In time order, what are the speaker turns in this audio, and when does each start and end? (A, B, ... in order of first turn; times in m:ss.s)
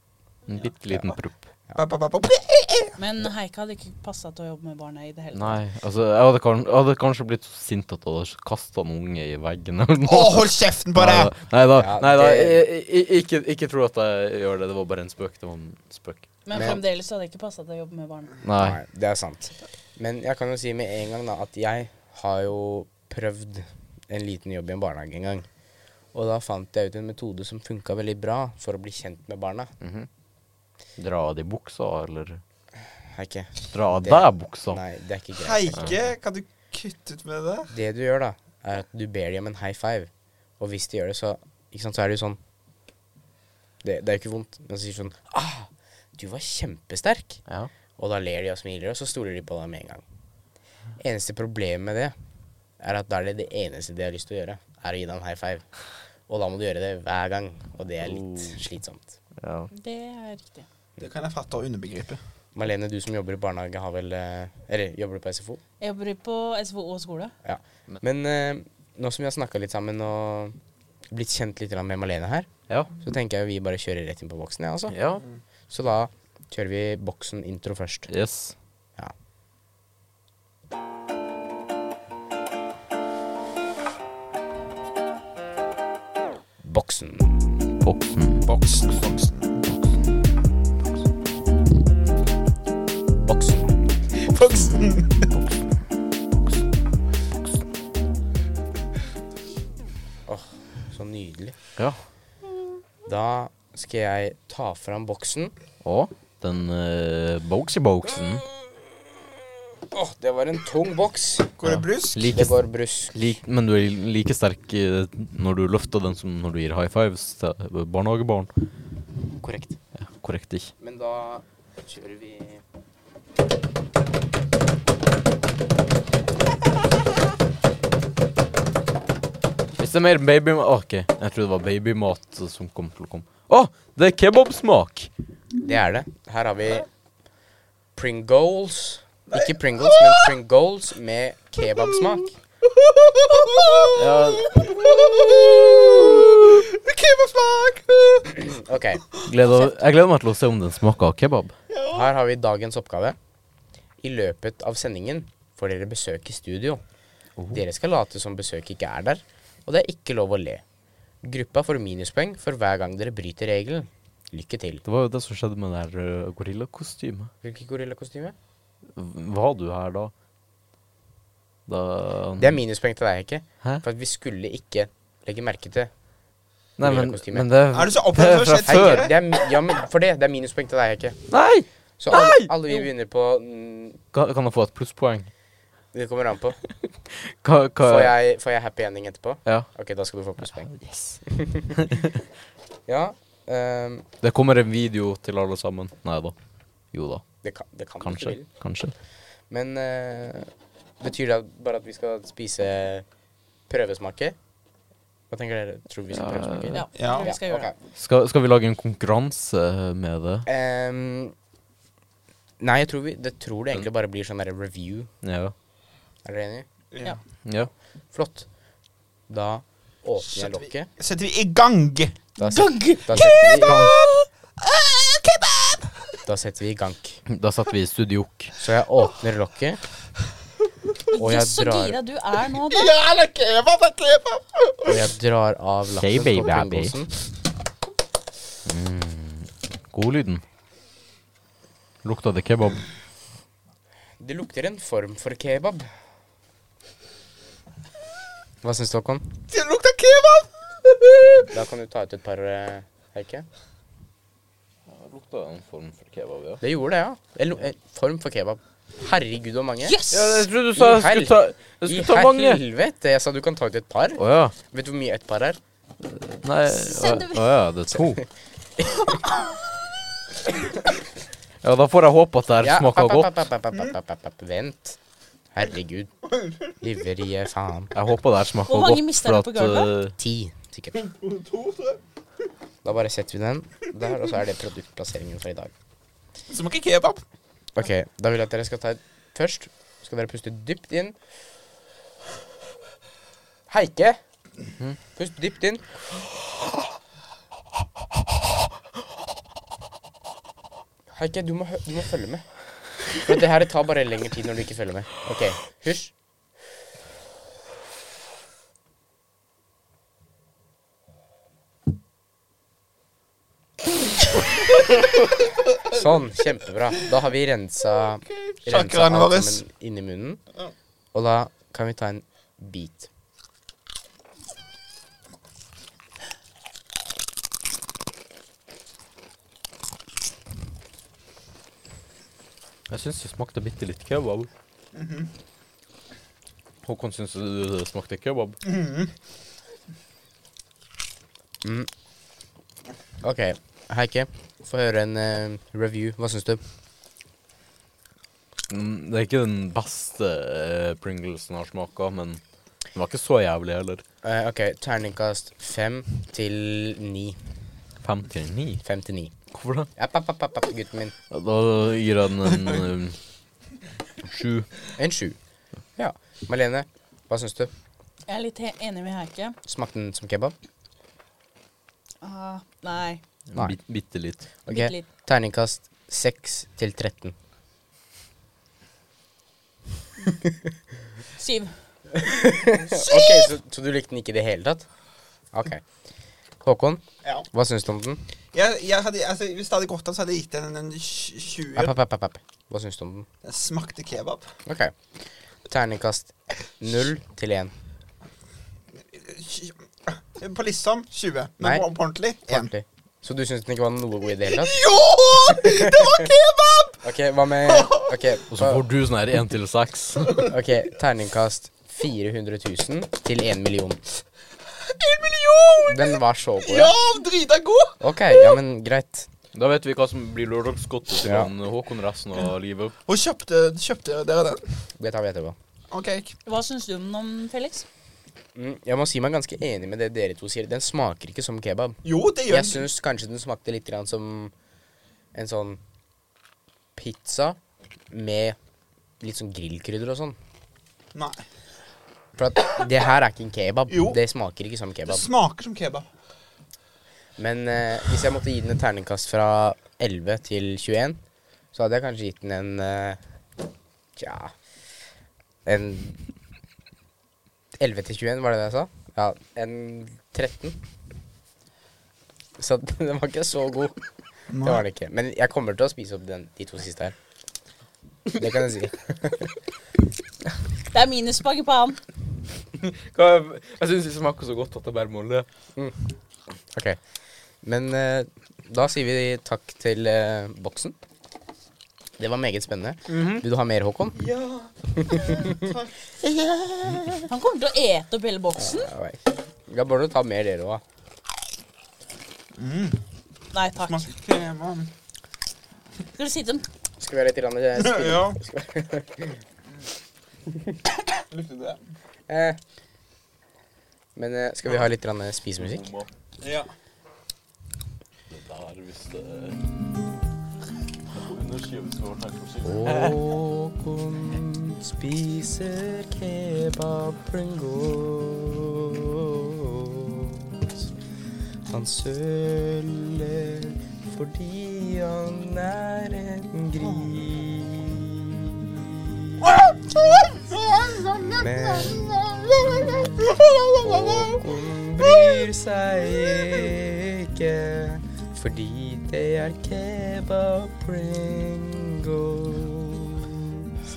0:00.5-0:01.5 A
0:01.8-0:03.0 B
0:03.0-0:05.6 C
0:05.3-0:16.4 A
0:10.0-0:11.3 B
0:11.8-0:12.6 D
0:16.4-0:18.4 C
0:16.5-0:16.8 D
0:18.4-0:18.8 A
0:18.6-0:25.5 D
0:26.1-0:29.7 D
0:29.8-0:30.1 A
0:31.0-0:32.4 A
0:33.0-0:36.0 D
0:33.7-0:34.8 A
0:35.4-0:37.7 B
0:37.7-0:42.4 D
0:43.8-0:47.4 D
0:48.0-0:50.0 D
0:51.0-0:52.1 D
0:52.8-0:55.7 D
0:56.3-0:59.1 D
0:58.0-0:58.6 A
0:59.4-0:59.7 A
0:59.7-1:00.6 C
1:01.0-1:02.2 B
1:02.5-1:05.6 D
1:05.8-1:07.3 C
1:07.4-1:10.6 D
1:11.1-1:14.9 D
1:14.9-1:15.2 A
1:15.7-1:18.1 D
1:18.1-1:18.5 A
1:26.6-1:27.6 D
1:27.8-1:28.5 A
1:28.4-1:29.7 B
1:33.2-1:33.8 D
1:34.5-1:34.8 A
1:34.7-1:35.1 B
1:40.3-1:41.5 D
1:43.0-1:45.5 D
1:45.8-1:48.4 A
1:49.9-1:51.6 D
1:51.6-1:52.3 B
1:51.6-1:58.5 A
1:52.3-1:53.4 D
1:59.4-1:59.8 D
2:00.0-2:00.7 A
2:00.8-2:02.6 D
2:09.8-2:15.1 A
2:15.6-2:16.9 D
2:17.9-2:22.3 D
2:19.3-2:20.3 B
2:21.7-2:28.5 B
2:23.9-2:24.5 A
2:28.4-2:29.0 D
2:29.2-2:31.5 A
2:31.7-2:32.1 B
2:31.9-2:33.2 D
2:34.0-2:36.8 D
2:37.5-2:40.6 D
2:41.2-2:44.8 D
2:44.8-2:47.3 A
2:47.4-2:48.3 D
2:48.9-2:50.1 A
2:51.7-2:52.6 A
2:52.4-2:55.9 D
2:56.8-2:59.1 A
2:56.8-2:57.5 D
2:57.7-2:59.2 B
2:58.6-3:01.2 D
3:01.3-3:02.5 A
3:02.0-3:04.0 D
3:04.1-3:05.3 A
3:05.9-3:06.6 D
3:07.2-3:08.1 A
3:07.8-3:11.8 D
3:10.7-3:12.1 A
3:12.9-3:14.0 D
3:14.2-3:16.3 A
3:16.9-3:17.3 A
3:17.4-3:18.5 D
3:18.0-3:18.9 A
3:19.5-3:23.0 D
3:23.7-3:24.4 D
3:25.3-3:27.8 D
3:26.1-3:26.8 A
3:26.7-3:27.7 C
3:26.9-3:27.3 B
3:27.9-3:30.5 A
3:30.4-3:31.3 D
3:32.6-3:35.1 D
3:35.2-3:35.5 A
3:36.2-3:36.6 D
3:36.9-3:37.2 B
3:37.4-3:37.7 A
3:38.1-3:38.5 D
3:39.3-3:40.9 D
3:40.2-3:42.2 B
3:42.4-3:43.9 D
3:42.4-3:43.9 C
3:43.1-3:46.2 B
3:46.2-3:47.2 D
3:47.3-3:48.5 A
3:48.6-3:49.8 D
3:51.1-3:52.9 C
3:51.2-3:52.0 D
3:52.6-3:55.1 B
3:54.8-3:57.1 D
3:56.0-3:56.9 A
3:58.6-4:00.4 A
4:02.0-4:02.8 A
4:04.2-4:05.9 D
4:08.6-4:09.4 D
4:09.5-4:11.5 B
4:11.5-4:13.4 D
4:14.9-4:16.6 A
4:16.6-4:20.0 D
4:19.8-4:20.4 C
4:20.1-4:22.6 A
4:20.8-4:25.6 D
4:24.2-4:24.5 A
4:26.0-4:28.2 A
4:26.7-4:27.5 C
4:28.8-4:29.1 D
4:31.6-4:33.3 A
4:32.6-4:35.0 D
4:35.5-4:36.1 D
4:36.3-4:36.5 B
4:36.8-4:37.9 D
4:37.9-4:40.1 A
4:38.7-4:39.9 C
4:40.2-4:41.0 D
4:40.9-4:42.0 B
4:42.8-4:45.7 D
4:46.5-4:47.2 B
4:47.8-4:51.2 D
4:53.7-4:54.2 D
4:55.2-4:56.0 D
5:01.1-5:02.5 D
5:03.0-5:06.1 D
5:15.9-5:20.4 D
5:18.3-5:19.6 B
5:21.1-5:23.1 D
5:32.9-5:34.5 A
5:34.9-5:35.3 B
5:36.8-5:38.6 A
5:38.6-5:39.1 B
5:41.6-5:41.9 D
5:43.2-5:46.6 D
5:48.7-5:52.4 A
5:52.9-5:54.0 A
5:54.2-5:57.4 D
5:58.0-5:58.8 A
5:58.8-5:59.3 D
5:59.5-5:59.9 A
6:00.0-6:01.1 D
6:01.3-6:03.2 A
6:04.2-6:04.7 A
6:05.0-6:05.4 D
6:06.0-6:07.7 D
6:08.3-6:09.6 C
6:09.6-6:10.5 D
6:12.2-6:13.2 C
6:13.5-6:14.5 A
6:14.6-6:17.3 D
6:14.7-6:15.0 C
6:21.4-6:21.7 C
6:22.2-6:24.9 D
6:25.5-6:25.8 D
6:26.6-6:28.2 D
6:28.5-6:31.9 B
6:31.8-6:33.3 D
6:33.4-6:34.5 B
6:34.6-6:34.9 D
6:35.6-6:37.7 D
6:39.1-6:42.7 B
6:41.6-6:41.9 D
6:42.5-6:44.8 D
6:44.4-6:47.0 B
6:45.4-6:46.2 D
6:47.0-6:48.8 D
6:47.6-6:48.3 B
6:48.5-6:50.5 A
6:50.4-6:54.0 D
6:54.7-6:58.6 B
6:55.8-6:56.9 D
6:58.0-6:59.3 D
6:59.5-7:02.9 A
7:01.2-7:01.5 D
7:03.0-7:04.6 B
7:05.0-7:05.6 D
7:05.9-7:06.4 B
7:06.4-7:07.8 C
7:08.5-7:14.5 D
7:12.0-7:12.8 B
7:15.3-7:15.8 D
7:17.0-7:17.6 D
7:18.1-7:18.6 D
7:19.2-7:20.4 D
7:21.1-7:21.4 B
7:22.4-7:25.2 D
7:23.9-7:24.2 B
7:25.0-7:26.1 B
7:27.4-7:31.2 D
7:31.7-7:33.2 D
7:34.2-7:34.5 D
7:35.6-7:36.2 D
7:37.8-7:40.8 D
7:42.6-7:44.0 D
7:44.5-7:44.8 B
7:44.6-7:47.1 D
7:48.3-7:49.5 D
7:50.9-7:52.0 C
7:52.8-7:55.4 A
7:56.7-7:57.0 D
7:57.6-8:01.0 D
8:02.2-8:04.2 D
8:03.1-8:03.4 A
8:04.2-8:05.9 B
8:04.9-8:07.3 D
8:07.3-8:08.9 C
8:08.6-8:10.8 D
8:12.5-8:13.0 B
8:13.5-8:14.1 C
8:13.8-8:14.9 B
8:16.1-8:16.6 C
8:17.0-8:19.4 D
8:17.8-8:18.4 B
8:21.2-8:21.8 B
8:22.3-8:22.6 D
8:24.2-8:25.9 D
8:25.6-8:26.1 A
8:26.4-8:26.7 B
8:28.3-8:29.6 A
8:31.1-8:33.2 A
8:32.6-8:40.8 D
8:41.7-8:49.5 D
8:46.8-8:47.2 B
8:49.4-8:54.4 B
8:51.4-9:03.7 D
8:55.0-8:55.4 B